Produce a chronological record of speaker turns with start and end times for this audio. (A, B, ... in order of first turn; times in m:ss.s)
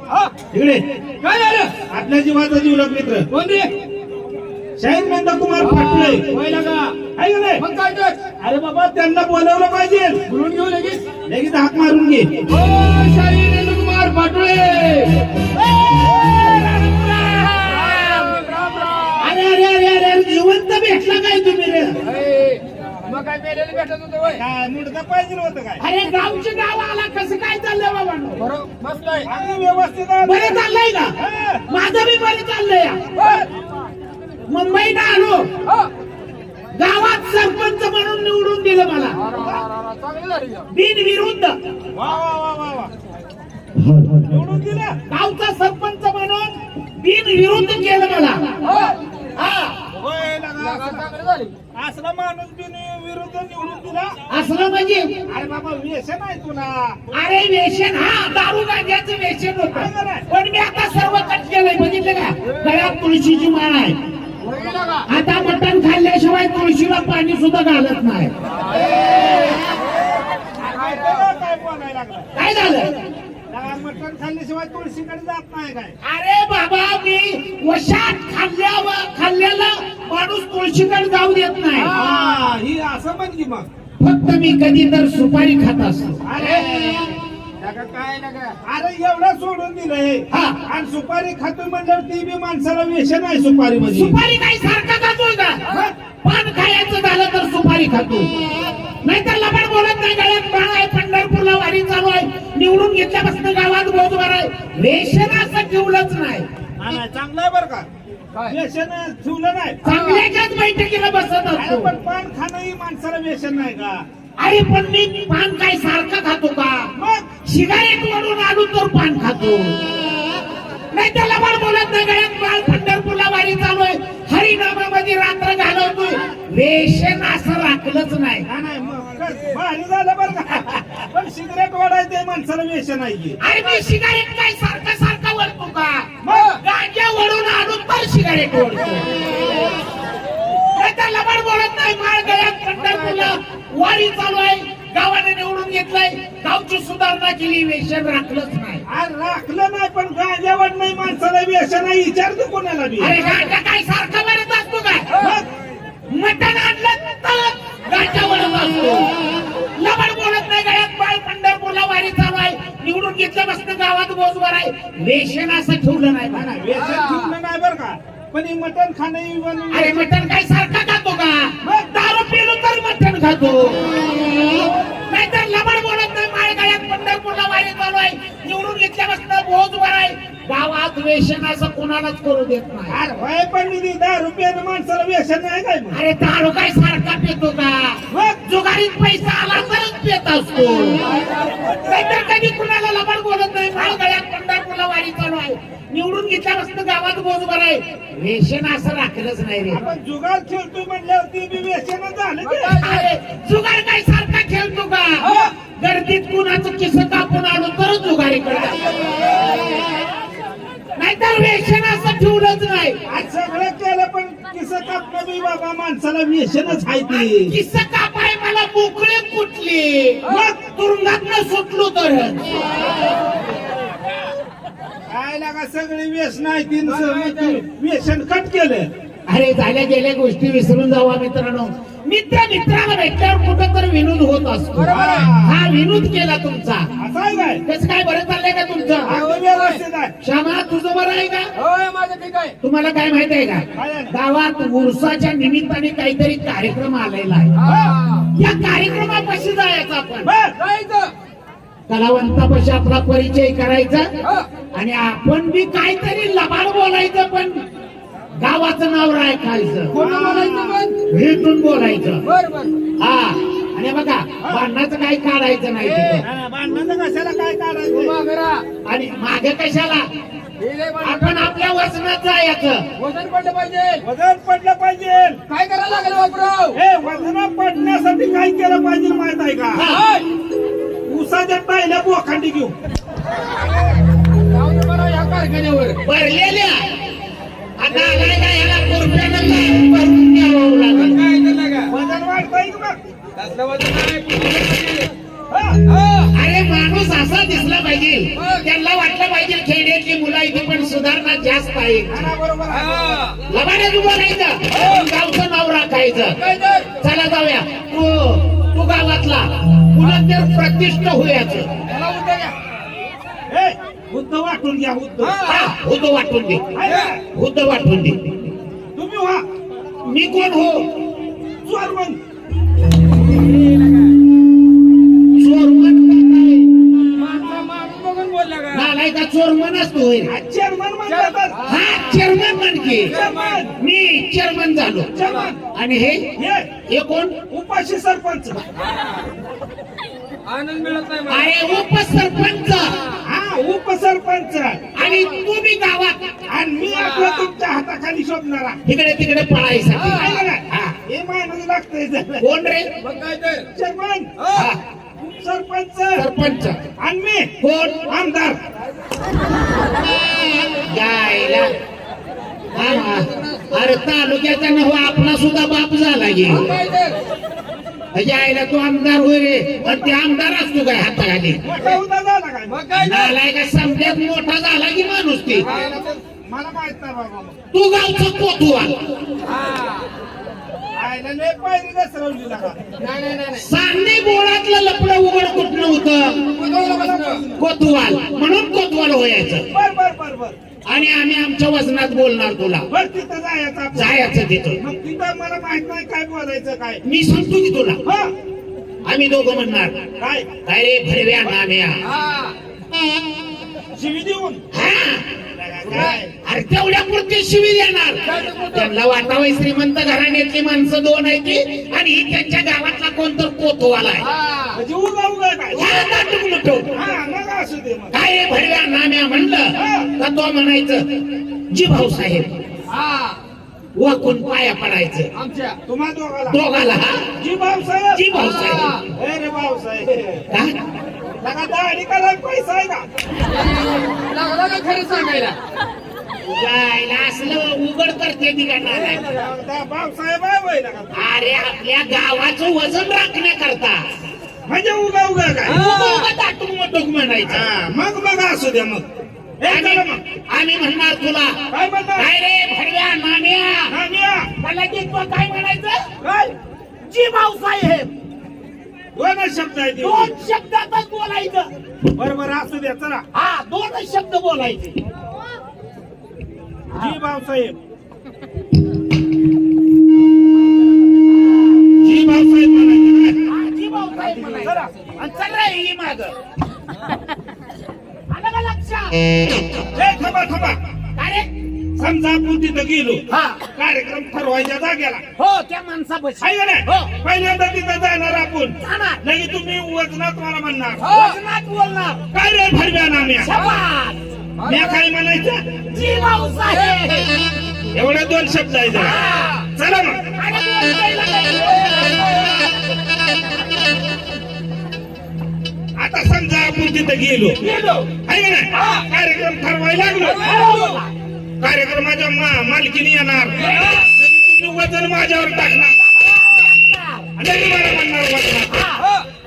0:00.5-0:00.8 A
0:01.2-0:01.7 B
0:01.9-0:03.3 A
0:03.3-0:03.7 B
0:04.8-0:06.3 A
0:05.6-0:07.0 B
0:07.1-0:07.6 A
0:07.6-0:08.2 B
0:08.4-0:10.2 A
0:10.3-0:11.0 B
0:11.2-0:12.4 A
0:12.5-0:15.5 B
0:16.3-0:18.5 C
0:17.6-0:19.4 B
0:19.2-0:22.0 C
0:22.0-0:24.4 B
0:24.4-0:25.8 A
0:25.8-0:28.4 C
0:28.4-0:29.3 B
0:29.2-0:30.6 A
0:30.2-0:31.2 C
0:31.2-0:31.6 A
0:31.7-0:33.0 C
0:33.2-0:33.4 B
0:33.2-0:33.5 A
0:34.5-0:35.5 C
0:36.8-0:39.2 C
0:39.2-0:40.7 B
0:40.7-0:41.6 C
0:41.9-0:42.9 A
0:44.1-0:45.0 A
0:45.1-0:48.5 C
0:48.6-0:49.0 B
0:49.4-0:49.8 C
0:49.9-0:51.1 A
0:50.6-0:51.5 B
0:51.7-0:54.2 A
0:54.3-0:55.2 C
0:55.3-0:57.2 A
0:57.1-1:04.0 C
0:59.7-1:00.3 A
1:04.4-1:05.1 B
1:05.1-1:08.3 C
1:08.7-1:09.8 B
1:10.5-1:11.2 B
1:10.6-1:12.3 A
1:12.4-1:13.0 C
1:13.5-1:16.0 A
1:16.0-1:22.0 C
1:21.8-1:22.4 B
1:21.9-1:23.7 A
1:24.0-1:26.6 C
1:26.2-1:27.1 A
1:27.6-1:28.6 B
1:28.6-1:34.2 A
1:30.3-1:30.6 C
1:33.9-1:35.6 C
1:35.7-1:35.9 A
1:36.2-1:38.5 C
1:39.0-1:46.5 C
1:46.8-1:47.9 A
1:48.5-1:49.9 A
1:49.8-1:51.9 C
1:49.9-1:50.2 B
1:51.6-1:54.0 A
1:54.4-1:56.9 C
1:57.0-1:57.3 A
1:57.4-1:59.7 C
2:00.9-2:08.5 C
2:08.5-2:13.4 A
2:13.4-2:19.1 C
2:16.2-2:16.5 A
2:16.3-2:16.6 B
2:20.7-2:28.8 C
2:22.7-2:23.4 B
2:28.9-2:33.2 A
2:33.0-2:35.1 C
2:35.2-2:35.4 A
2:36.1-2:39.2 C
2:39.8-2:46.5 C
2:46.3-2:50.0 A
2:46.7-2:47.3 B
2:49.7-2:54.0 C
2:51.6-2:51.9 A
2:55.1-3:03.0 C
3:02.9-3:06.0 A
3:05.9-3:11.0 C
3:08.1-3:08.4 A
3:11.1-3:11.6 B
3:11.6-3:12.3 A
3:11.8-3:19.8 C
3:19.7-3:22.8 A
3:22.4-3:23.1 B
3:22.7-3:29.0 C
3:25.2-3:25.5 A
3:31.0-3:33.0 C
3:33.1-3:37.6 A
3:37.1-3:42.8 C
3:40.3-3:40.6 A
3:45.1-3:48.9 A
3:46.9-3:47.6 B
3:49.3-3:56.9 C
3:54.8-3:55.3 B
3:54.9-3:55.6 A
3:57.0-3:57.6 A
3:57.7-3:59.2 C
3:59.0-4:00.1 A
3:59.1-3:59.8 B
4:00.2-4:01.5 C
4:01.6-4:02.6 B
4:02.6-4:07.6 C
4:03.8-4:04.2 A
4:07.6-4:08.3 B
4:07.6-4:08.0 A
4:08.3-4:10.3 C
4:10.2-4:10.6 A
4:10.6-4:11.1 B
4:11.9-4:14.1 C
4:14.2-4:14.5 B
4:14.7-4:17.6 C
4:18.4-4:20.0 C
4:19.9-4:20.9 B
4:19.9-4:20.9 A
4:21.1-4:22.3 C
4:22.2-4:22.8 B
4:23.0-4:26.3 C
4:25.8-4:26.2 B
4:26.2-4:28.2 A
4:27.9-4:28.6 B
4:28.9-4:30.1 C
4:30.6-4:31.5 B
4:31.0-4:32.9 C
4:33.0-4:34.0 B
4:34.0-4:35.4 A
4:35.5-4:36.8 B
4:36.7-4:39.9 A
4:39.8-4:40.0 C
4:39.8-4:40.2 B
4:41.1-4:42.8 A
4:44.4-4:46.0 B
4:46.0-4:46.9 C
4:47.8-4:51.2 C
4:51.0-4:51.9 B
4:51.9-4:53.0 A
4:53.4-4:55.1 B
4:55.5-4:55.8 A
4:55.8-4:56.3 B
4:56.3-5:02.3 C
4:58.4-4:58.6 B
5:02.1-5:03.2 A
5:02.7-5:03.4 B
5:03.5-5:06.4 C
5:04.7-5:05.1 B
5:06.4-5:06.9 B
5:07.0-5:11.7 C
5:11.9-5:12.6 B
5:13.5-5:15.4 A
5:15.2-5:15.7 B
5:15.4-5:16.7 C
5:16.7-5:17.2 A
5:16.8-5:17.2 B
5:17.3-5:18.3 C
5:19.0-5:19.4 A
5:20.0-5:21.0 C
5:21.6-5:22.2 A
5:25.4-5:26.7 C
5:27.2-5:28.9 B
5:28.7-5:30.4 C
5:30.3-5:31.6 A
5:31.1-5:31.8 B
5:31.6-5:33.2 C
5:33.0-5:33.8 A
5:33.1-5:33.6 B
5:33.8-5:35.2 C
5:35.1-5:35.6 A
5:35.2-5:35.5 B
5:35.7-5:36.3 C
5:36.4-5:36.7 A
5:36.9-5:37.4 C
5:37.5-5:38.6 A
5:38.8-5:39.2 B
5:40.5-5:41.5 B
5:41.3-5:43.0 C
5:43.2-5:44.9 A
5:45.0-5:46.3 C
5:46.5-5:48.8 A
5:46.8-5:47.5 B
5:48.8-5:51.0 C
5:49.9-5:50.4 B
5:50.1-5:52.4 A
5:52.4-5:52.9 C
5:53.0-5:53.7 B
5:53.7-5:54.4 A
5:54.4-5:54.7 B
5:54.5-5:54.8 C
5:55.2-5:56.2 A
5:56.2-5:56.8 C
5:57.0-5:58.6 A
5:57.6-5:58.1 C
6:00.9-6:01.7 C
6:02.7-6:03.7 B
6:02.7-6:06.8 C
6:06.5-6:07.2 B
6:08.1-6:11.6 C
6:11.6-6:12.9 A
6:12.7-6:13.3 B
6:13.0-6:15.7 C
6:15.6-6:17.6 A
6:15.6-6:16.2 B
6:17.7-6:19.0 C
6:19.4-6:20.1 B
6:20.9-6:22.8 A
6:23.0-6:23.6 B
6:23.5-6:26.4 C
6:26.4-6:27.4 B
6:26.7-6:27.6 A
6:27.6-6:29.7 C
6:29.7-6:30.6 A
6:30.9-6:32.9 C
6:32.9-6:37.0 A
6:34.0-6:34.8 C
6:37.0-6:38.0 C
6:38.0-6:38.3 A
6:39.0-6:40.0 C
6:40.2-6:40.6 A
6:40.6-6:42.0 C
6:42.0-6:42.6 B
6:43.9-6:44.6 A
6:44.7-6:45.3 C
6:45.5-6:46.3 A
6:45.8-6:46.2 B
6:46.4-6:54.3 C
6:48.2-6:48.9 B
6:54.2-6:54.8 B
6:54.7-6:56.3 A
6:55.7-6:57.0 C
6:56.9-6:58.2 A
6:58.1-7:02.5 C
6:59.7-7:00.1 A
7:02.9-7:03.4 B
7:04.0-7:05.3 C
7:05.4-7:05.8 B
7:05.9-7:06.6 A
7:06.5-7:07.3 C
7:07.4-7:08.3 A
7:08.1-7:09.0 C
7:08.3-7:09.0 B
7:09.1-7:10.5 A
7:10.5-7:10.8 C
7:11.4-7:13.0 A
7:13.5-7:15.6 B
7:16.4-7:19.3 C
7:19.2-7:21.2 A
7:21.1-7:24.0 C
7:24.7-7:25.9 A
7:25.7-7:26.3 B
7:25.7-7:27.7 C
7:27.4-7:29.1 A
7:29.6-7:30.2 A
7:29.7-7:31.6 C
7:31.7-7:32.3 A
7:32.2-7:33.9 C
7:33.9-7:34.5 A
7:34.6-7:36.0 C
7:36.2-7:36.5 A
7:37.1-7:38.1 C
7:39.2-7:40.3 A
7:40.0-7:41.7 C
7:42.2-7:43.2 A
7:43.3-7:45.0 C
7:46.9-7:47.8 A
7:52.0-7:53.4 A
7:53.5-7:56.3 C
7:54.2-7:54.6 B
7:54.6-7:54.9 A
7:58.3-7:59.4 C
7:59.9-8:00.8 A
8:01.2-8:01.5 C
8:02.0-8:03.2 A
8:03.3-8:03.7 C
8:03.7-8:05.2 A
8:05.4-8:07.1 C
8:06.4-8:11.1 A
8:08.8-8:09.2 C
8:11.0-8:11.4 B
8:11.1-8:12.2 C
8:12.3-8:13.6 A
8:13.4-8:14.2 C
8:14.6-8:15.1 B
8:14.6-8:15.8 A
8:15.9-8:17.4 C
8:16.5-8:17.0 B
8:17.9-8:20.3 A
8:18.9-8:19.6 C
8:20.3-8:22.2 C
8:21.8-8:22.2 B
8:26.0-8:27.6 A
8:27.6-8:28.1 C
8:28.1-8:30.7 A
8:30.2-8:31.0 B
8:30.4-8:31.1 C
8:31.6-8:36.0 A
8:33.6-8:34.0 C
8:33.6-8:34.0 B
8:36.0-8:37.3 C
8:37.4-8:38.9 A
8:38.7-8:39.0 C
8:39.0-8:39.2 B